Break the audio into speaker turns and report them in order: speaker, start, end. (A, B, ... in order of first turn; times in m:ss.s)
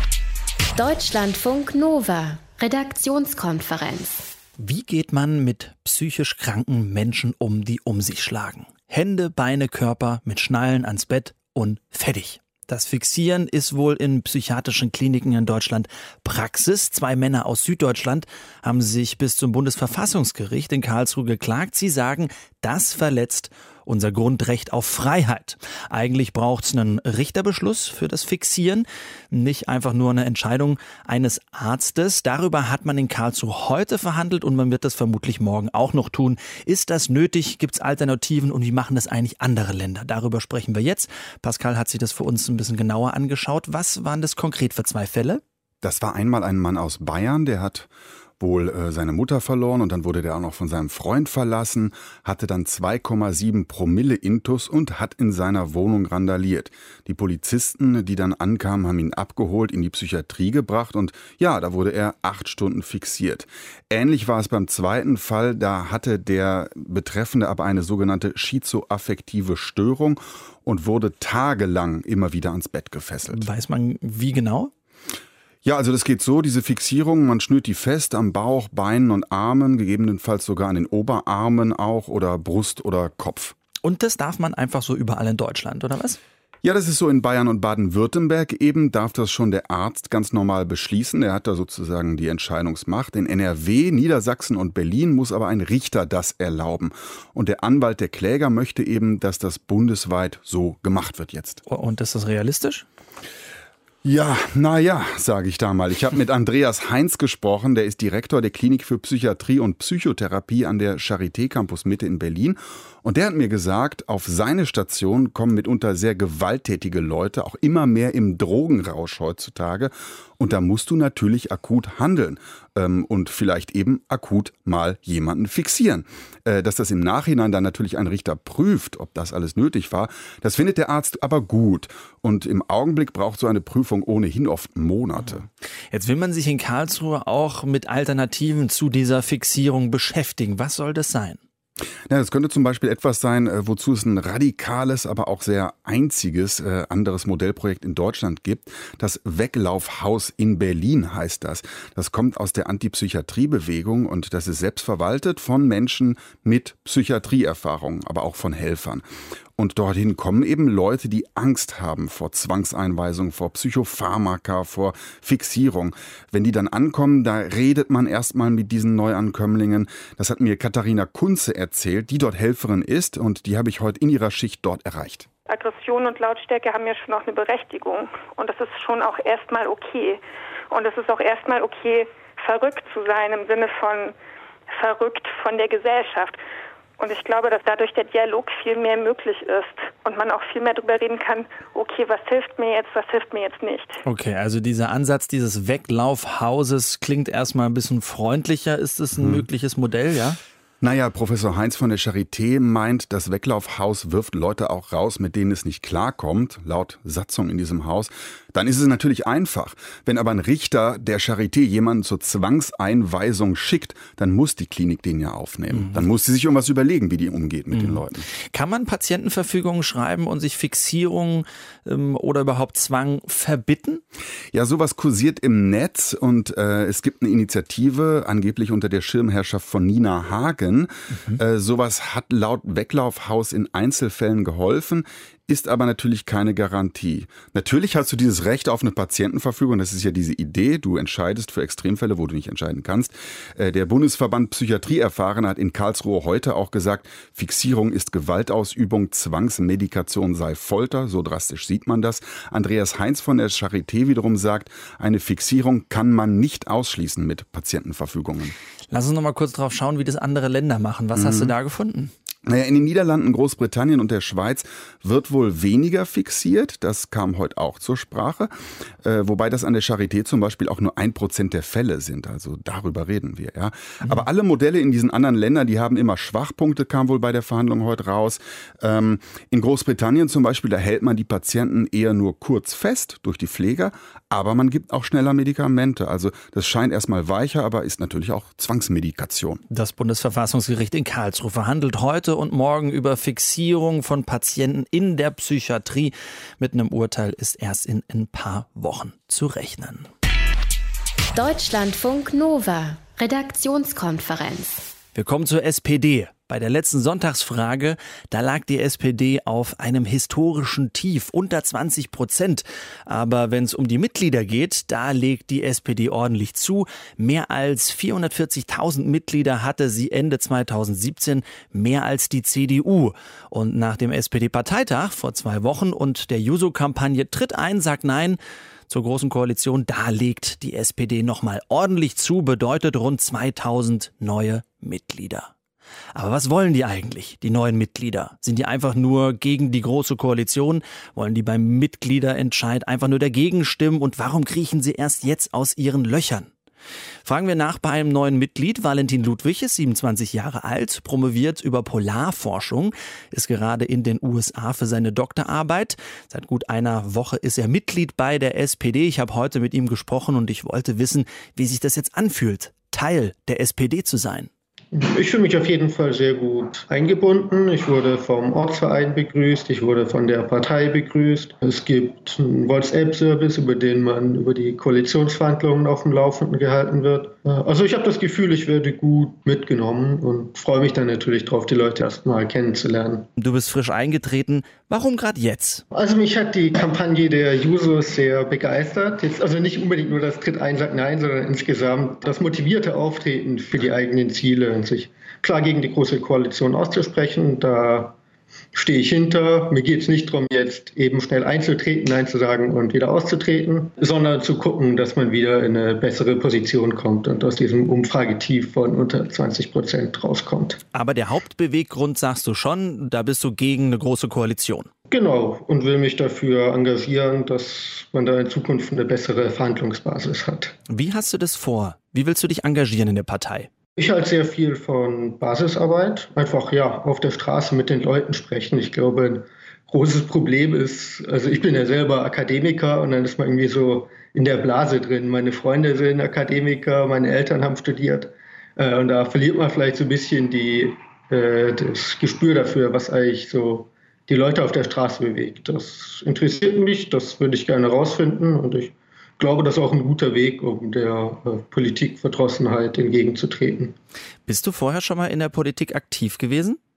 0:00.8-0:04.3 A
0:04.6-0:45.4 B
0:45.8-0:47.9 C
0:48.4-1:13.5 C
1:13.3-1:14.7 B
1:15.6-1:23.6 C
1:23.8-1:26.2 B
1:26.6-1:41.6 C
1:41.7-1:42.9 B
1:44.0-2:15.5 C
2:15.9-2:21.4 B
2:22.1-2:39.0 C
2:39.6-2:55.3 C
2:55.5-3:04.2 D
3:04.7-3:06.4 D
3:07.0-3:14.0 D
3:14.1-3:20.4 B
3:19.2-3:19.4 C
3:20.8-3:38.3 C
3:35.7-3:36.0 B
3:37.7-3:44.0 B
3:44.5-4:18.6 C
3:51.1-3:51.4 B
4:18.9-4:22.1 B
4:21.2-4:21.5 C
4:22.5-4:49.6 C
4:49.7-5:00.1 B
5:01.3-5:04.9 A
5:05.2-5:35.5 B
5:36.2-5:46.5 B
5:47.2-6:04.5 B
6:04.9-6:23.3 E
6:23.4-6:25.8 B
6:25.9-6:38.2 E
6:38.7-6:50.8 E
6:50.9-6:54.9 B
6:55.1-7:00.7 E
7:00.9-7:03.7 B
7:04.0-7:33.9 E
7:34.5-7:36.8 B